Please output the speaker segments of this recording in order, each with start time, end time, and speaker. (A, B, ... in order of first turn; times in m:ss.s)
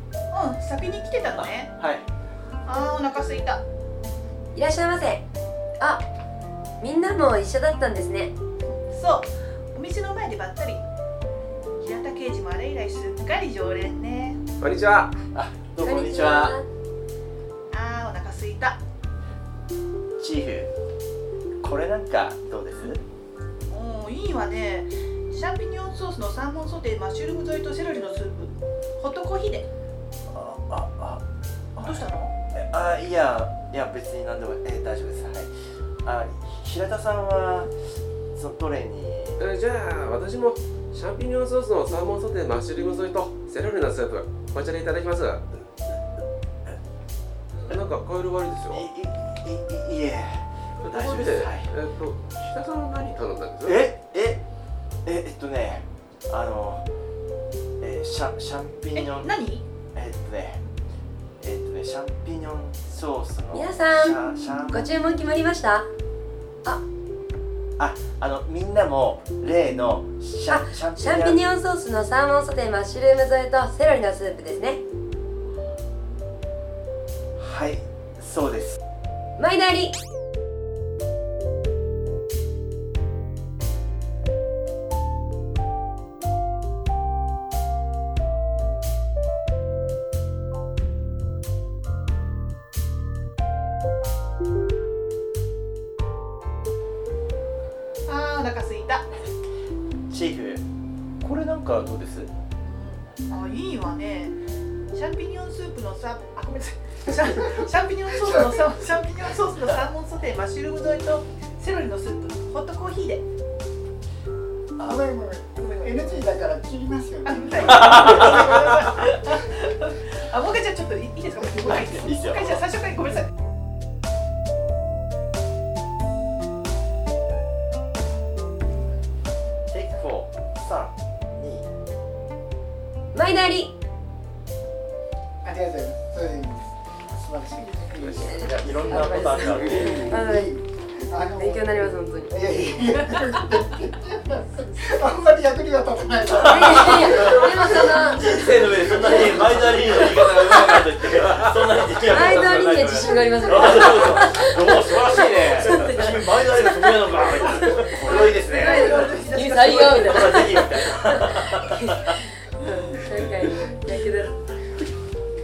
0:00.3-0:01.8 A
0:01.3-0:02.1 B
0:02.6-0:03.6 A
0:04.6-0:05.2 C
0:05.8-0:06.0 C
0:06.8-0:08.3 C
0:08.7-0:10.8 A
0:11.8-0:14.4 A
0:14.6-0:15.2 D
0:15.3-0:16.6 B
0:15.8-0:16.6 C
0:17.7-0:18.8 A
0:20.2-0:20.7 B
0:21.6-0:23.0 B
0:23.7-0:29.7 A
0:30.3-0:31.2 B
0:31.8-0:32.4 A
0:32.5-0:35.5 B
0:36.0-0:37.7 B
0:38.4-0:39.4 B
0:39.4-0:45.6 D
0:47.6-0:48.9 D
0:48.7-0:51.7 B
0:50.8-0:53.8 D
0:53.6-0:54.4 B
0:55.0-0:56.9 B
0:57.8-0:59.3 B
0:58.9-0:59.6 A
0:59.9-1:00.6 B
1:01.4-1:04.9 B
1:03.5-1:05.9 C
1:07.8-1:11.4 B
1:10.5-1:14.8 C
1:17.4-1:18.8 B
1:19.4-1:19.9 C
1:38.1-1:39.1 A
1:40.1-1:40.6 B
1:41.2-1:42.3 B
1:42.7-1:44.4 A
1:44.9-1:53.2 A
1:54.8-1:58.0 E
1:55.6-1:56.3 A
1:57.2-2:03.3 A
1:57.9-1:58.6 B
2:01.4-2:02.1 E
2:01.8-2:02.6 B
2:09.7-2:11.7 B
2:13.1-2:13.7 C
2:15.4-2:29.2 E
2:17.9-2:20.1 D
2:18.2-2:20.6 C
2:18.6-2:20.0 B
2:21.3-2:23.2 C
2:26.3-2:28.5 C
2:26.3-2:42.2 B
2:32.1-2:37.0 C
2:37.6-2:40.4 A
2:38.3-2:44.4 C